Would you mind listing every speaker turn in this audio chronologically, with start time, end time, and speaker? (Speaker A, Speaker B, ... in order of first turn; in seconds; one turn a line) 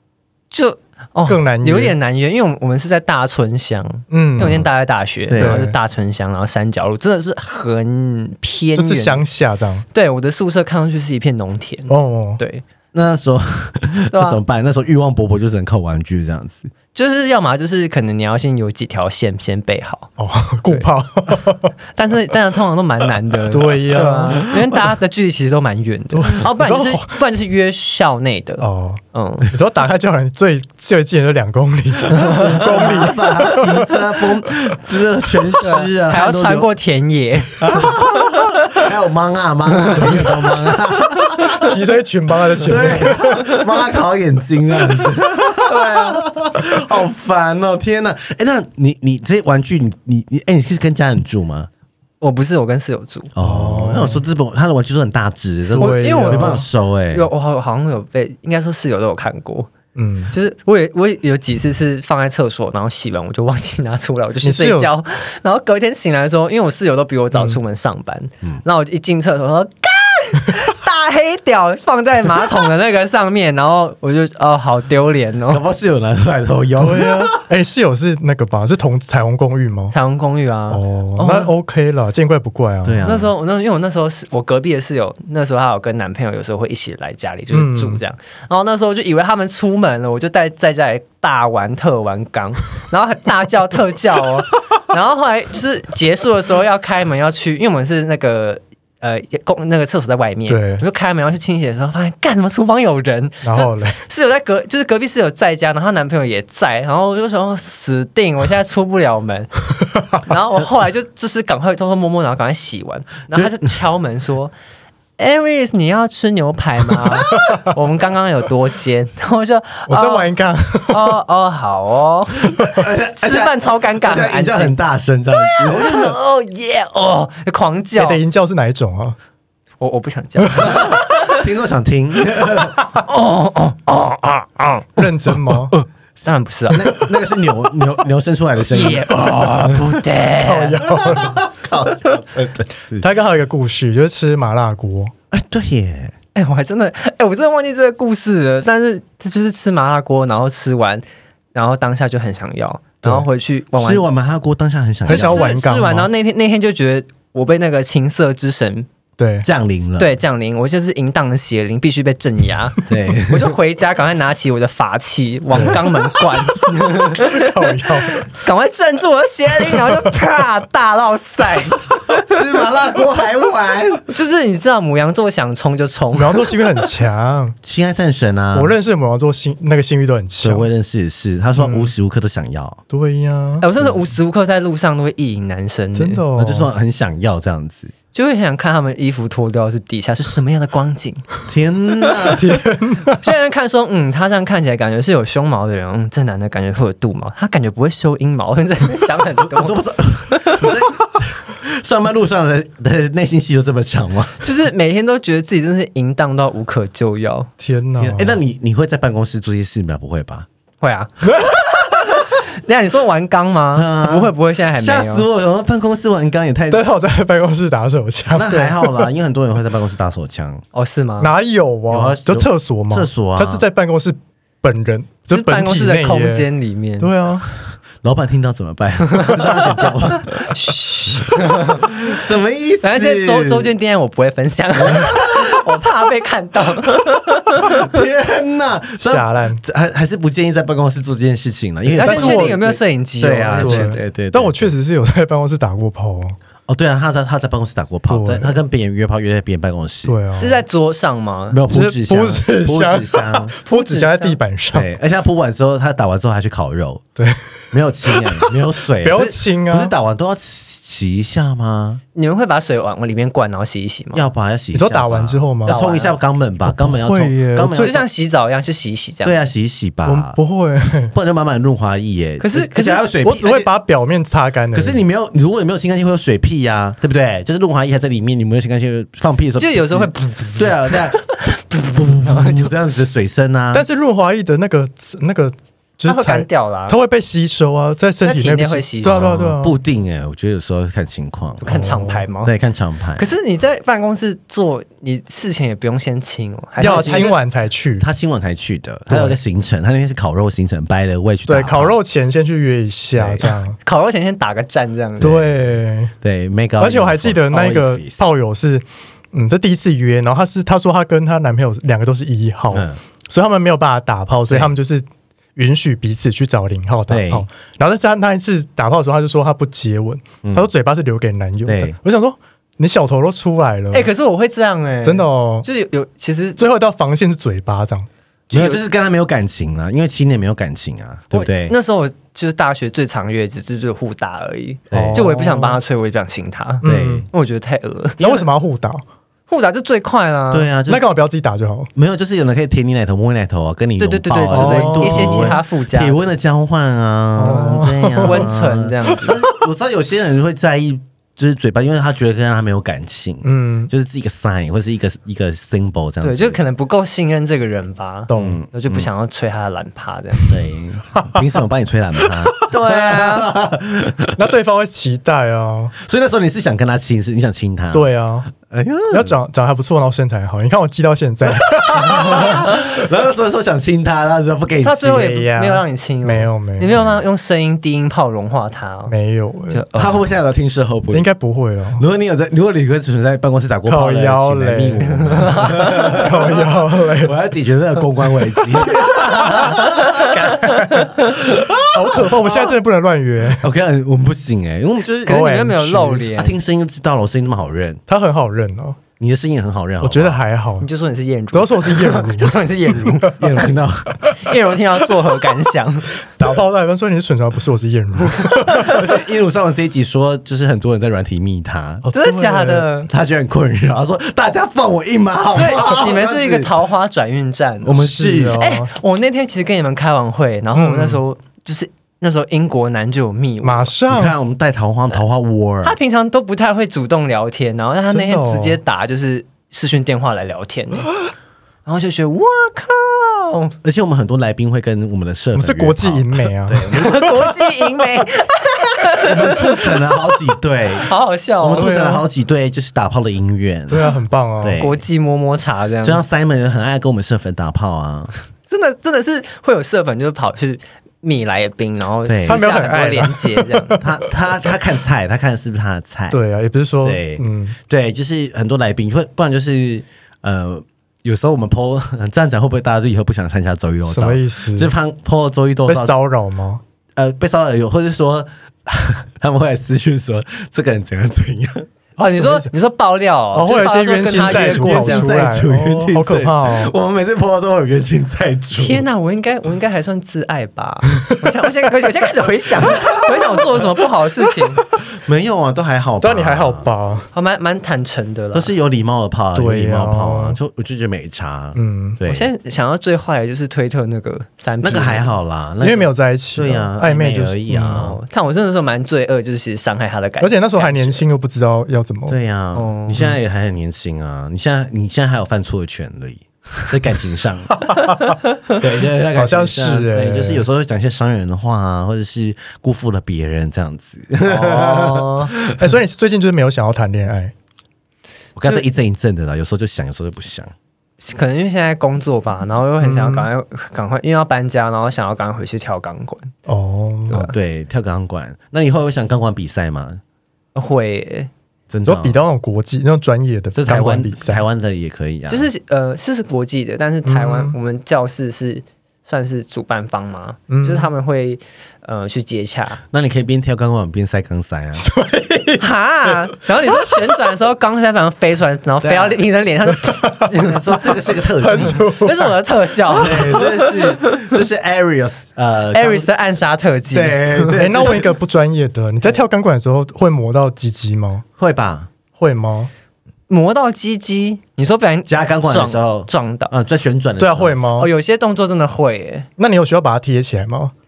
Speaker A: 0.5-9.3
Speaker B: 1.3-2.0
Speaker B: 4.1-4.6
Speaker C: 4.4-4.7
Speaker C: 5.3-5.7
Speaker B: 5.4-5.7
Speaker B: 8.8-9.8
Speaker A: 9.9-12.6
Speaker B: 11.9-12.4
Speaker C: 12.9-16.7
Speaker A: 14.1-14.4
Speaker A: 16.9-20.1
Speaker B: 20.2-21.7
Speaker A: 22.0-29.5
Speaker B: 23.5-24.4
Speaker C: 24.1-24.8
Speaker B: 26.1-27.2
Speaker B: 28.6-33.9
Speaker C: 32.2-36.7
Speaker A: 35.6-38.5
Speaker C: 37.6-41.7
Speaker B: 41.6-43.5
Speaker C: 42.5-51.7
Speaker A: 45.6-46.2
Speaker A: 52.2-53.3
Speaker C: 53.4-57.3
Speaker B: 53.4-54.2
Speaker B: 55.7-56.6
Speaker A: 55.8-59.7
Speaker B: 60.0-60.3
Speaker A: 60.3-75.6
Speaker B: 64.4-64.9
Speaker B: 67.3-67.6
Speaker C: 75.5-77.4
Speaker B: 76.8-80.0
Speaker A: 79.9-81.5
Speaker B: 80.7-83.1
Speaker C: 82.8-83.3
Speaker A: 83.0-109.5
Speaker B: 87.5-88.0
Speaker B: 100.5-100.8
Speaker B: 103.4-104.0
Speaker A: 110.2-114.5
Speaker C: 113.3-113.6
Speaker A: 115.2-120.3
Speaker B: 119.9-121.2
Speaker A: 120.9-124.8
Speaker C: 122.7-126.2
Speaker A: 125.3-128.2
Speaker B: 128.0-129.2
Speaker A: 129.8-131.3
Speaker C: 130.6-132.8
Speaker A: 133.0-137.1
Speaker B: 135.0-135.7
Speaker C: 136.7-139.8
Speaker A: 138.7-141.0
Speaker B: 140.4-141.4
Speaker C: 140.9-143.1
Speaker B: 143.0-145.1
Speaker C: 145.3-146.2
Speaker A: 146.3-154.1
Speaker C: 153.7-155.5
Speaker B: 155.1-156.1
Speaker A: 155.1-158.9
Speaker B: 159.2-159.5
Speaker C: 159.4-160.2
Speaker A: 160.0-172.2
Speaker C: 162.9-163.6
Speaker B: 165.5-165.8
Speaker B: 167.1-168.2
Speaker B: 169.8-170.1
Speaker C: 172.2-174.0
Speaker A: 174.1-176.6
Speaker B: 176.1-177.6
Speaker C: 177.6-178.7
Speaker B: 178.5-180.7
Speaker C: 180.4-182.8
Speaker B: 181.5-181.9
Speaker B: 182.9-183.7
Speaker A: 183.6-186.2
Speaker B: 185.9-186.7
Speaker C: 186.3-187.9
Speaker A: 188.1-191.2
Speaker C: 191.5-192.6
Speaker B: 192.3-193.2
Speaker A: 193.2-200.7
Speaker C: 199.4-204.5
Speaker A: 204.4-207.5
Speaker B: 207.6-208.4
Speaker C: 208.0-210.5
Speaker A: 210.8-215.3
Speaker C: 213.7-216.8
Speaker B: 216.7-219.1
Speaker C: 218.3-220.6
Speaker A: 220.7-221.3
Speaker B: 221.2-226.5
Speaker C: 221.9-223.6
Speaker A: 225.3-227.1
Speaker B: 227.0-227.5
Speaker C: 228.0-230.6
Speaker A: 229.3-231.8
Speaker C: 231.7-233.7
Speaker A: 232.8-237.9
Speaker C: 234.8-235.1
Speaker C: 237.7-244.7
Speaker B: 239.0-239.6
Speaker B: 241.9-242.8
Speaker A: 242.0-244.0
Speaker B: 243.5-246.4
Speaker C: 246.7-250.2
Speaker B: 248.1-248.6
Speaker B: 250.0-250.6
Speaker A: 250.4-251.6
Speaker C: 251.5-253.6
Speaker B: 251.7-254.9
Speaker A: 253.7-254.4
Speaker C: 254.7-257.0
Speaker B: 257.2-258.5
Speaker C: 257.7-262.0
Speaker B: 259.0-259.9
Speaker A: 262.1-264.2
Speaker C: 264.1-268.0
Speaker B: 264.7-265.8
Speaker A: 265.6-266.2
Speaker B: 266.7-268.0
Speaker A: 267.7-269.4
Speaker C: 269.2-270.4
Speaker B: 270.1-271.1
Speaker C: 271.1-273.7
Speaker A: 272.4-273.1
Speaker B: 273.2-275.0
Speaker C: 274.7-283.9
Speaker A: 279.6-282.7
Speaker B: 283.7-289.8
Speaker A: 286.1-287.0
Speaker A: 288.2-289.3
Speaker C: 289.0-291.9
Speaker A: 291.6-292.5
Speaker B: 291.7-292.2
Speaker C: 292.4-293.3
Speaker A: 293.2-297.4
Speaker B: 296.8-298.1
Speaker C: 296.8-297.3
Speaker C: 298.0-302.0
Speaker B: 299.1-299.4
Speaker B: 301.5-303.8
Speaker C: 303.2-303.4
Speaker A: 303.4-305.4
Speaker B: 305.2-306.1
Speaker C: 305.2-308.2
Speaker B: 306.8-324.1
Speaker C: 312.7-313.0
Speaker C: 317.1-317.5
Speaker C: 320.4-320.7
Speaker C: 321.7-322.0
Speaker A: 323.9-326.6
Speaker B: 325.0-325.7
Speaker B: 326.6-328.1
Speaker A: 328.5-328.8
Speaker C: 328.5-331.8
Speaker A: 331.3-338.5
Speaker C: 334.9-335.3
Speaker B: 334.9-335.8
Speaker B: 336.8-337.3
Speaker C: 336.8-337.3
Speaker B: 338.2-339.0
Speaker A: 339.5-340.7
Speaker C: 340.5-341.1
Speaker B: 340.9-341.9
Speaker C: 341.9-356.6
Speaker A: 344.0-346.2
Speaker B: 344.5-345.6
Speaker B: 347.4-348.5
Speaker A: 347.4-349.4
Speaker B: 353.4-353.9
Speaker A: 356.2-360.6
Speaker B: 358.3-358.6
Speaker C: 358.4-359.1
Speaker C: 360.5-364.4
Speaker A: 362.7-363.5
Speaker B: 364.4-365.9
Speaker C: 366.0-369.4
Speaker B: 367.9-368.5
Speaker B: 369.1-372.6
Speaker C: 371.7-375.3
Speaker A: 374.8-379.1
Speaker B: 375.1-377.0
Speaker C: 376.9-377.2
Speaker B: 379.1-379.9
Speaker A: 379.7-380.2
Speaker C: 379.9-381.3
Speaker B: 381.1-382.1
Speaker C: 382.0-390.6
Speaker B: 383.9-385.2
Speaker A: 385.2-386.0
Speaker B: 385.9-387.3
Speaker B: 389.1-391.3
Speaker C: 391.2-392.7
Speaker B: 391.9-393.7
Speaker C: 393.6-395.4
Speaker A: 395.2-396.6
Speaker B: 395.3-396.3
Speaker C: 396.3-398.0
Speaker B: 398.1-399.0
Speaker C: 399.2-400.4
Speaker B: 400.0-400.9
Speaker A: 400.8-403.6
Speaker B: 401.5-403.6
Speaker C: 403.4-404.3
Speaker A: 404.3-406.1
Speaker B: 406.3-408.9
Speaker C: 408.4-412.1
Speaker B: 412.1-412.9
Speaker A: 412.1-413.1
Speaker C: 413.1-416.8
Speaker A: 415.5-423.9
Speaker C: 417.8-418.6
Speaker B: 417.9-418.9
Speaker B: 420.7-421.2
Speaker B: 423.6-424.4
Speaker C: 424.1-426.0
Speaker A: 425.8-431.1
Speaker B: 428.1-428.8
Speaker A: 431.9-433.7
Speaker C: 433.8-437.4
Speaker B: 435.5-437.6
Speaker A: 436.9-440.0
Speaker C: 439.2-445.0
Speaker A: 441.0-441.9
Speaker B: 441.8-442.3
Speaker B: 443.9-444.8
Speaker A: 444.8-446.2
Speaker C: 446.0-448.3
Speaker A: 448.7-454.0
Speaker C: 452.3-452.6
Speaker B: 452.5-454.2
Speaker C: 454.0-456.4
Speaker B: 456.3-457.8
Speaker C: 457.0-466.1
Speaker B: 464.1-464.9
Speaker B: 465.9-466.8
Speaker C: 467.2-471.9
Speaker B: 472.2-472.7
Speaker A: 472.2-475.4
Speaker B: 473.5-476.9
Speaker C: 474.4-479.0
Speaker A: 478.7-484.8
Speaker C: 484.9-486.9
Speaker B: 486.2-487.3
Speaker A: 487.3-488.7
Speaker C: 488.5-492.5
Speaker B: 489.5-490.6
Speaker B: 491.8-492.2
Speaker A: 492.2-495.3
Speaker C: 494.8-498.2
Speaker B: 495.8-498.1
Speaker A: 497.9-501.3
Speaker B: 500.4-502.4
Speaker C: 502.3-507.8
Speaker A: 502.7-503.4
Speaker B: 507.7-508.2
Speaker C: 508.8-515.6
Speaker B: 509.3-510.7
Speaker B: 514.4-517.5
Speaker A: 514.8-515.5
Speaker C: 518.6-520.7
Speaker A: 521.2-526.5
Speaker B: 523.0-523.5
Speaker B: 526.7-527.5
Speaker C: 527.3-530.2
Speaker A: 530.8-531.5
Speaker C: 531.9-532.4
Speaker B: 532.0-534.6
Speaker C: 533.8-535.7
Speaker A: 535.5-543.0
Speaker B: 537.2-537.8
Speaker B: 540.7-541.1
Speaker C: 543.1-545.0
Speaker B: 545.0-546.4
Speaker A: 545.8-550.8
Speaker C: 549.0-549.4
Speaker B: 550.0-552.5
Speaker C: 550.5-552.1
Speaker A: 551.9-554.4
Speaker B: 553.1-553.6
Speaker C: 553.2-556.3
Speaker A: 555.9-558.1
Speaker C: 557.1-558.3
Speaker B: 557.7-561.4
Speaker C: 561.6-562.1
Speaker B: 562.4-562.9
Speaker A: 563.5-566.7
Speaker C: 565.3-567.8
Speaker B: 567.4-568.1
Speaker A: 567.9-569.5
Speaker B: 569.6-570.9